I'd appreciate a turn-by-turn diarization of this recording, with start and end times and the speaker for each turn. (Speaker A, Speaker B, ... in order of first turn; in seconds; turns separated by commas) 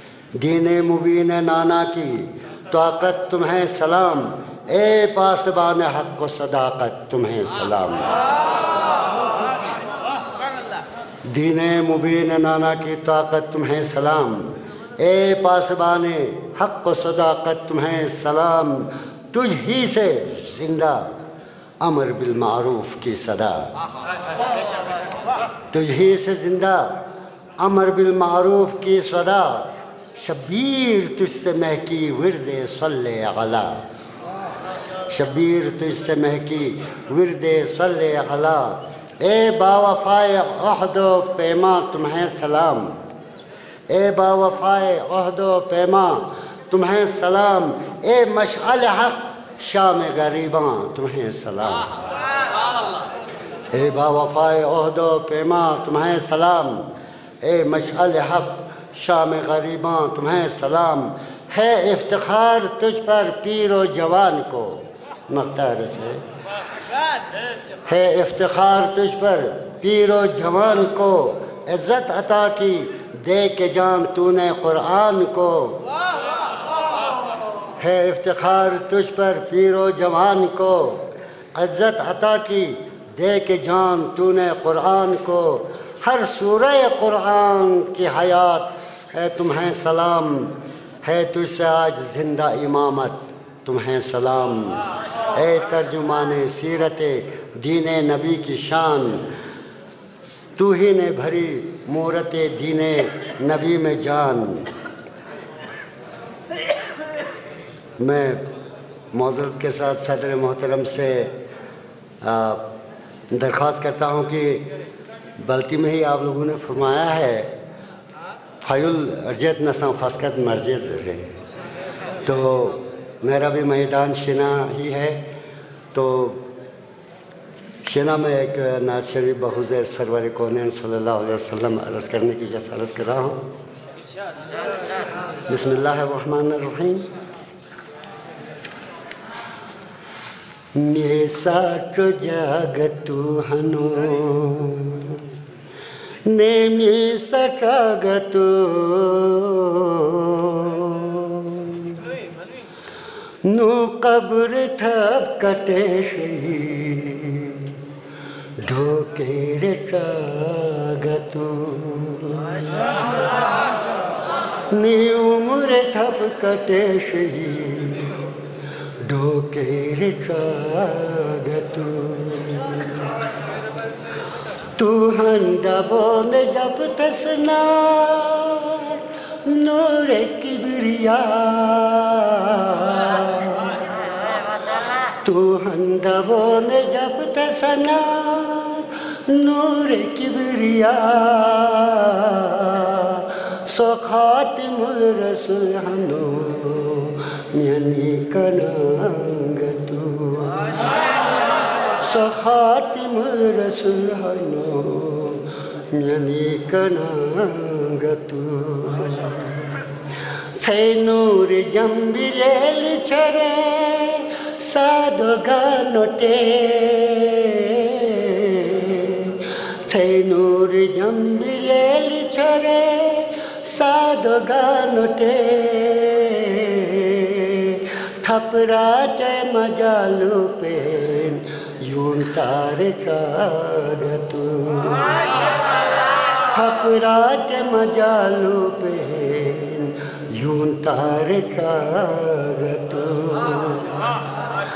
Speaker A: 0.4-8.2, Speaker A: 11.3-21.1, Speaker A: 21.8-23.7, Speaker A: 25.7-26.9, Speaker A: 27.6-33.8, Speaker A: 35.1-43.0, Speaker A: 43.9-51.9, Speaker A: 53.7-56.9, Speaker A: 57.4-66.2, Speaker A: 67.8-75.8, Speaker A: 77.8-81.0, Speaker A: 81.5-99.2, Speaker A: 100.6-104.7, Speaker A: 108.0-108.4, Speaker A: 109.1-111.3, Speaker A: 112.2-112.6, Speaker A: 113.3-114.7, Speaker A: 115.4-117.5, Speaker A: 118.6-121.3, Speaker A: 122.2-125.2, Speaker A: 125.9-126.4, Speaker A: 127.8-133.4, Speaker A: 135.5-137.1, Speaker A: 140.7-145.2, Speaker A: 146.3-152.1, Speaker A: 153.4-157.8, Speaker A: 158.6-162.9, Speaker A: 164.7-168.2, Speaker A: 169.0-173.2, Speaker A: 174.8-183.8, Speaker A: 185.2-200.9, Speaker A: 202.0-209.8, Speaker A: 210.6-235.3, Speaker A: 236.5-244.1